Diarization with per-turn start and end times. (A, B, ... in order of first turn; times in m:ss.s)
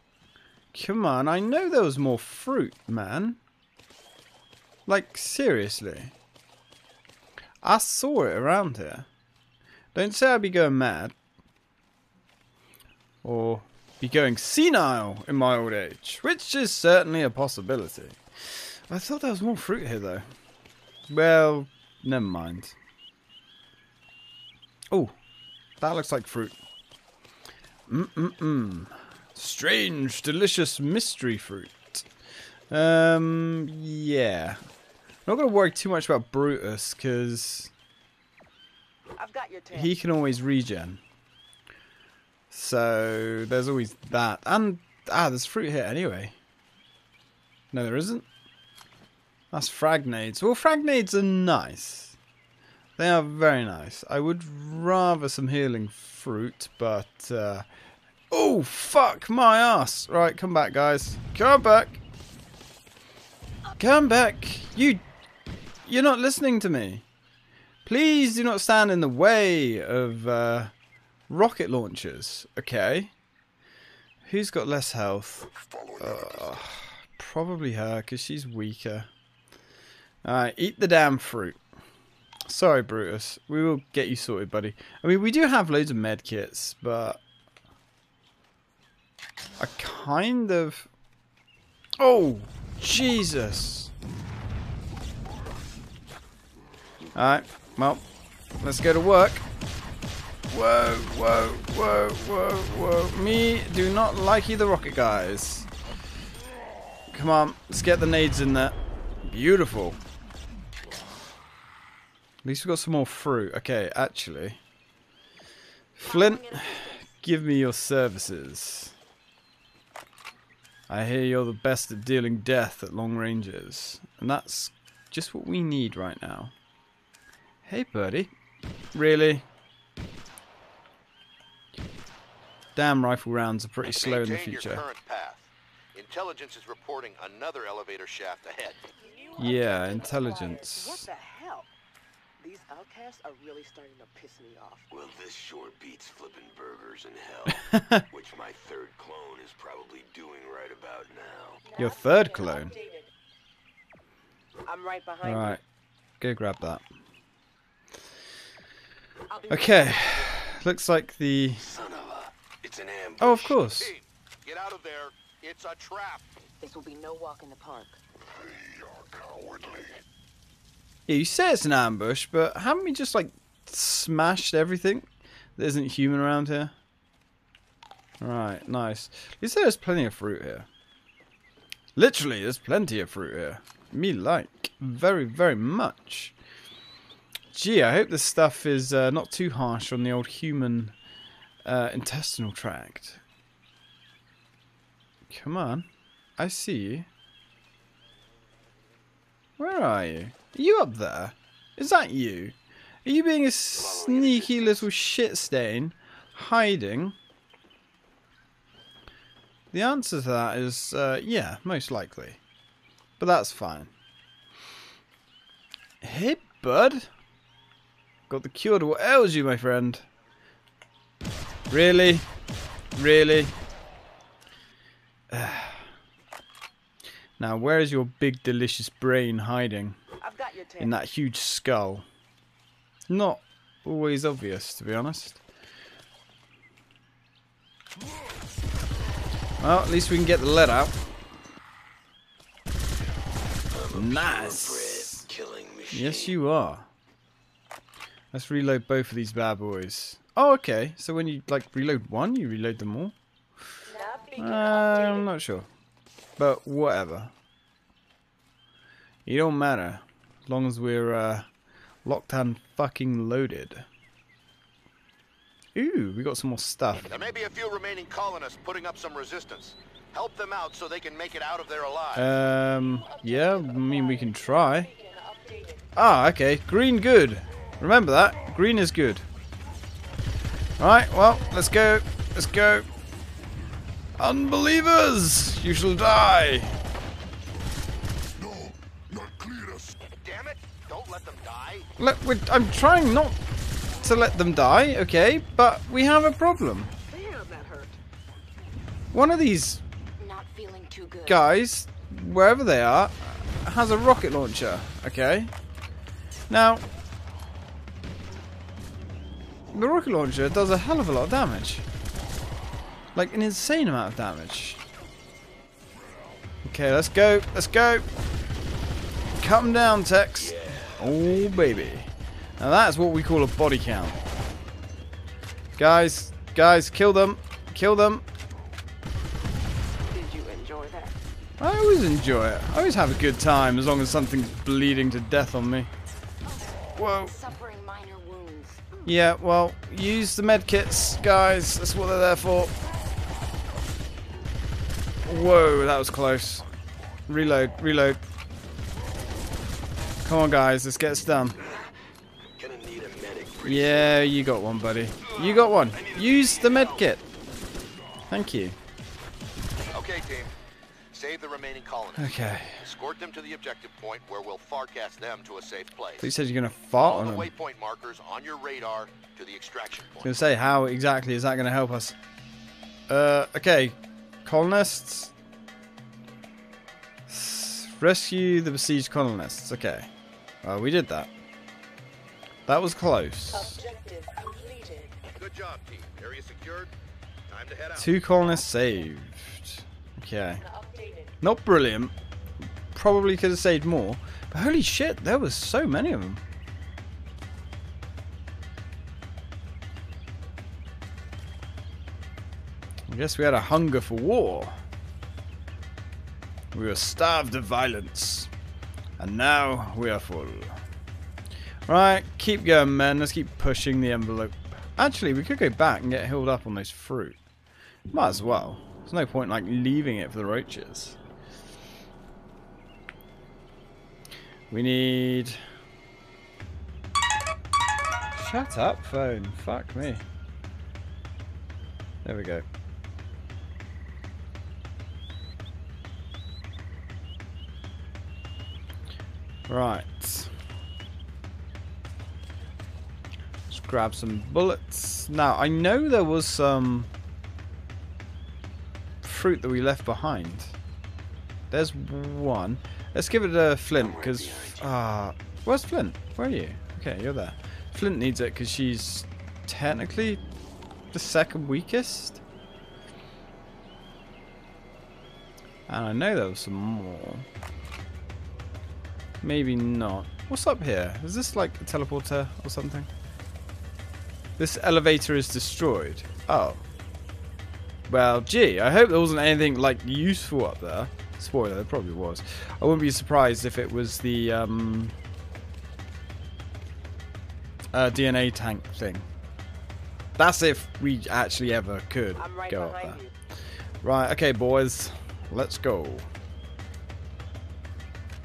0:00.7-0:03.4 A
0:04.9-0:06.1 A
0:07.6-0:09.1 A
0:09.9-0:11.1 A
0:13.2-0:20.2 A
0:21.1-0:22.7 A
0:25.8-0:26.6 A
0:27.9-0:32.0 A
0:32.7-0:34.6 A
0:35.2-0:37.7 A
0:39.2-0:40.0 B
0:39.7-0:41.0 A
0:42.5-0:46.3 A
0:47.7-0:48.2 A
0:49.5-0:52.2 A
0:53.0-0:57.6 A
0:58.3-1:02.0 A
1:03.8-1:05.0 A
1:05.8-1:07.0 A
1:07.8-1:10.7 A
1:11.3-1:13.1 A
1:14.2-1:19.1 A
1:15.4-1:16.7 C
1:20.2-1:21.6 A
1:22.5-1:27.2 A
1:29.6-1:30.9 A
1:32.0-1:33.9 A
1:37.1-1:38.0 A
1:38.6-1:39.4 A
1:40.5-1:45.7 A
1:47.1-1:50.0 A
1:52.4-1:54.6 A
1:56.0-1:58.9 A
1:56.0-1:57.2 D
2:00.9-2:06.5 A
2:07.6-2:08.3 A
2:08.9-2:09.4 A
2:12.8-2:14.8 A
2:13.8-2:18.8 E
2:19.4-2:21.0 A
2:20.6-2:21.7 B
2:22.4-2:24.8 B
2:24.9-2:31.6 F
2:27.7-2:28.0 A
2:31.8-2:32.9 A
2:34.6-2:35.6 B
2:35.2-2:35.6 A
2:36.2-2:36.8 A
2:39.3-2:40.0 D
2:39.5-2:40.4 B
2:39.5-2:41.6 A
2:41.6-2:43.6 F
2:43.2-2:43.9 A
2:43.8-2:46.2 E
2:46.6-2:48.0 D
2:48.2-2:50.0 C
2:51.1-2:56.7 A
2:58.2-3:00.7 A
3:02.0-3:06.3 A
3:07.5-3:10.9 A
3:11.6-3:13.2 A
3:15.3-3:15.9 A
3:16.4-3:17.1 A
3:19.6-3:27.1 A
3:23.7-3:24.9 F
3:29.7-3:32.4 A
3:33.2-3:33.9 A
3:36.0-3:37.1 A
3:38.3-3:40.0 A
3:41.7-3:42.2 A
3:43.0-3:43.5 A
3:45.3-3:45.9 A
3:47.4-3:50.0 A
3:50.2-3:51.0 B
3:50.8-3:52.0 A
3:53.1-3:55.4 A
3:59.6-4:01.0 A
4:03.7-4:06.4 F
4:03.9-4:05.3 A
4:05.9-4:06.9 A
4:08.3-4:13.1 A
4:14.3-4:15.7 A
4:16.4-4:17.3 A
4:19.2-4:21.5 A
4:22.0-4:23.8 A
4:25.7-4:27.1 A
4:27.1-4:32.3 E
4:32.1-4:35.0 A
4:35.9-4:39.2 A
4:40.8-4:42.9 A
4:44.2-4:46.8 A
4:48.4-4:49.9 C
4:50.2-4:51.9 E
4:52.0-4:53.4 A
4:54.0-4:56.9 A
4:57.1-4:58.0 B
4:59.1-4:59.8 A
5:00.2-5:01.5 D
5:01.2-5:05.5 A
5:06.5-5:06.8 A
5:09.7-5:11.8 A
5:13.1-5:14.8 A
5:16.6-5:18.0 A
5:19.4-5:24.2 A
5:20.3-5:22.0 F
5:25.8-5:28.2 A
5:30.1-5:31.2 B
5:31.6-5:35.9 A
5:36.4-5:38.8 D
5:37.0-5:37.3 A
5:39.0-5:42.7 A
5:45.2-5:46.6 A
5:47.3-5:48.2 A
5:50.2-5:51.6 A
5:52.5-5:54.2 F
5:53.6-5:57.2 A
5:55.2-5:57.2 F
5:58.3-5:58.8 A
5:59.9-6:00.5 E
6:01.1-6:06.3 E
6:02.2-6:02.8 A
6:06.2-6:07.5 A
6:07.0-6:10.4 E
6:10.2-6:12.1 A
6:13.1-6:15.3 A
6:17.3-6:20.1 A
6:20.6-6:21.3 A
6:22.7-6:23.8 A
6:25.3-6:26.9 E
6:27.5-6:28.2 E
6:28.0-6:30.7 A
6:31.4-6:32.1 A
6:32.9-6:36.4 A
6:43.1-6:44.8 A
6:46.7-6:48.5 A
6:49.2-6:50.8 A
6:51.9-6:57.4 A
6:58.1-7:01.2 A
7:04.7-7:05.6 A
7:08.3-7:10.2 A
7:12.2-7:12.6 A
7:19.7-7:20.5 A
7:23.7-7:27.1 A
7:29.2-7:30.7 A
7:31.7-7:40.4 A
7:33.9-7:34.9 F
7:41.1-7:42.4 A
7:45.9-7:47.4 A
7:49.4-7:53.1 A
7:54.6-7:56.8 A
7:58.1-8:05.1 A
8:07.9-8:09.3 A
8:10.4-8:13.2 A
8:12.4-8:13.3 B
8:14.0-8:16.3 A